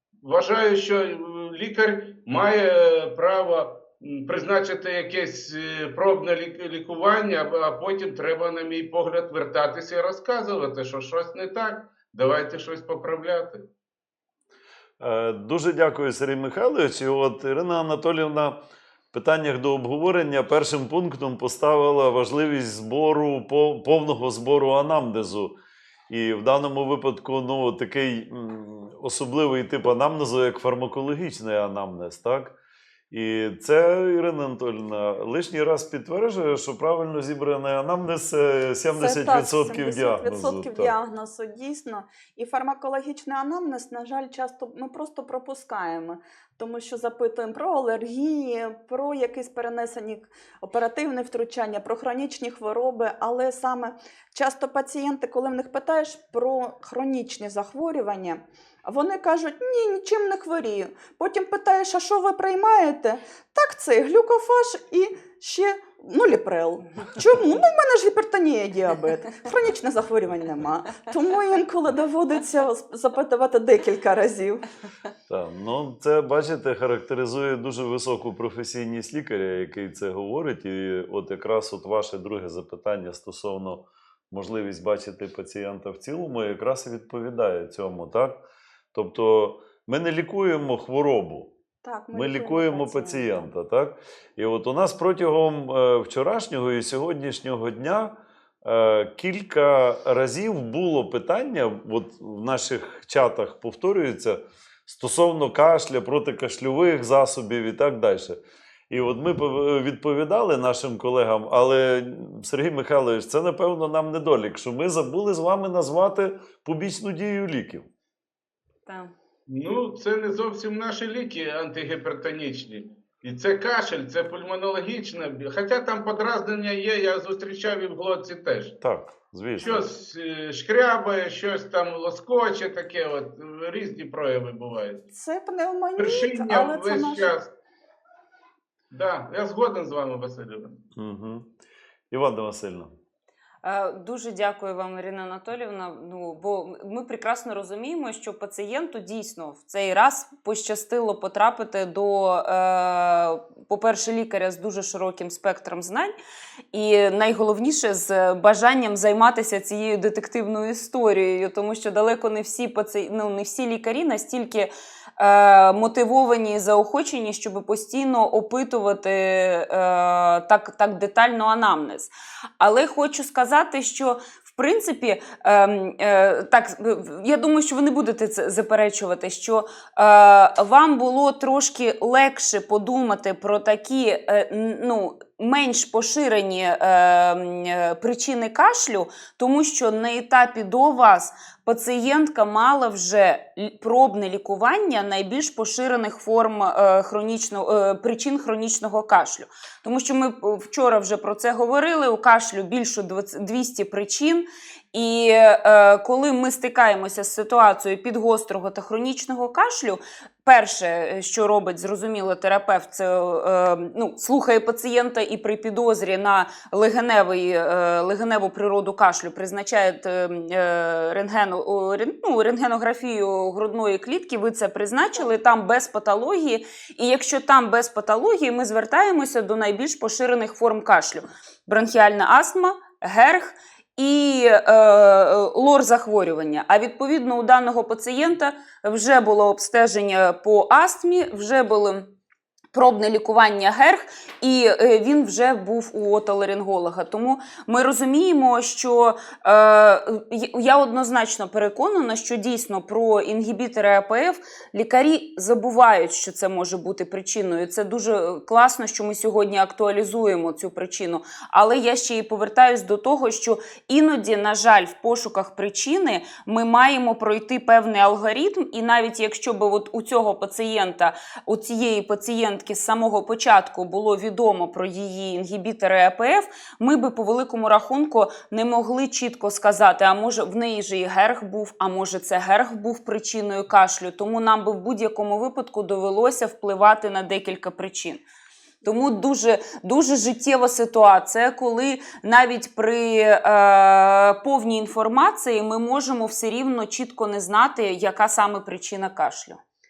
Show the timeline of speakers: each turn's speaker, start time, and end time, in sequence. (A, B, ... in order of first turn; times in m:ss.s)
0:00.2-0:13.7 A
0:15.0-0:25.6 B
0:26.1-0:32.6 B
0:33.1-0:40.9 B
0:38.9-1:14.6 C
1:15.3-1:31.5 B
1:31.8-1:33.5 C
1:32.1-1:57.9 B
1:58.9-1:59.1 D
1:59.5-2:08.8 A
2:08.8-2:09.8 B
2:09.6-2:15.0 A
2:15.1-2:17.3 C
2:16.0-2:17.5 A
2:18.9-2:20.8 A
2:21.0-2:21.5 B
2:22.1-2:22.9 B
2:23.6-2:36.2 D
2:36.7-4:02.1 D
4:02.7-4:48.2 D
4:48.8-4:59.6 D